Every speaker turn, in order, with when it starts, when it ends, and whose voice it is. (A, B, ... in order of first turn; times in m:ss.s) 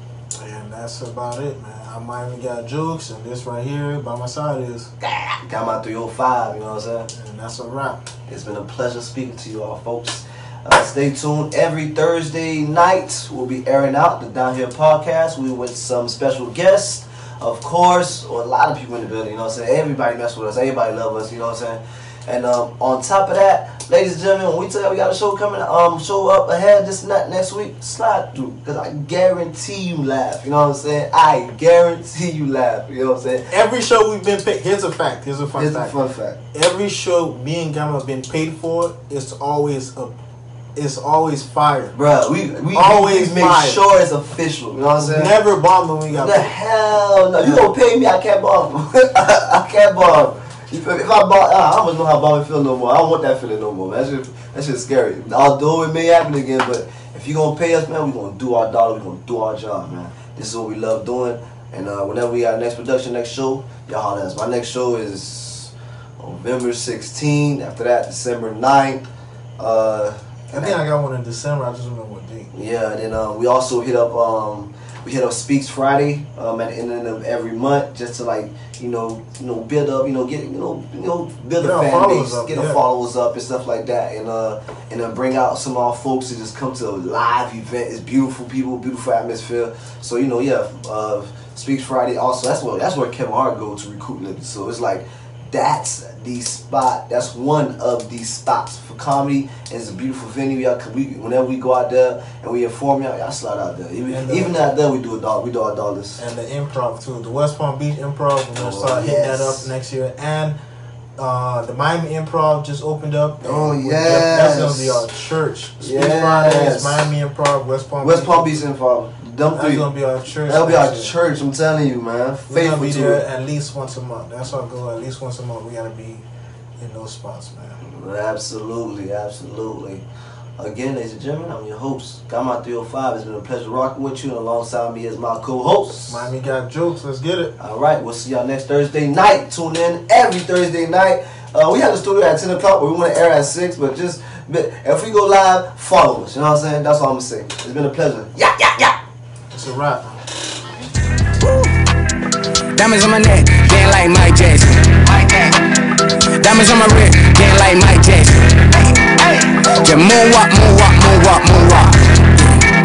0:00.4-0:04.9 A
0:05.0-0:07.1 B
0:07.1-0:08.0 A
0:08.3-0:33.5 B
0:33.5-0:35.9 A
0:35.5-0:36.4 B
0:36.5-0:40.2 A
0:40.7-0:41.9 A
0:41.9-0:45.4 B
0:42.7-0:43.8 A
0:45.0-0:46.5 A
0:46.1-1:09.0 B
1:09.6-1:10.8 B
1:10.5-1:12.5 A
1:12.5-1:46.2 B
1:21.6-1:22.8 A
1:44.1-1:44.6 A
1:46.2-1:50.6 A
1:48.5-1:49.7 B
1:51.2-1:58.6 A
1:53.4-1:55.0 B
1:55.8-1:57.1 B
1:58.0-1:59.8 B
1:59.5-2:01.1 A
2:00.4-2:03.2 B
2:02.5-2:06.2 A
2:06.8-2:07.8 A
2:07.8-2:10.0 B
2:10.6-2:16.3 B
2:16.1-2:17.5 A
2:17.6-2:29.0 B
2:29.5-2:30.2 A
2:31.4-2:31.7 C
2:32.7-2:35.7 C
2:36.3-2:42.7 C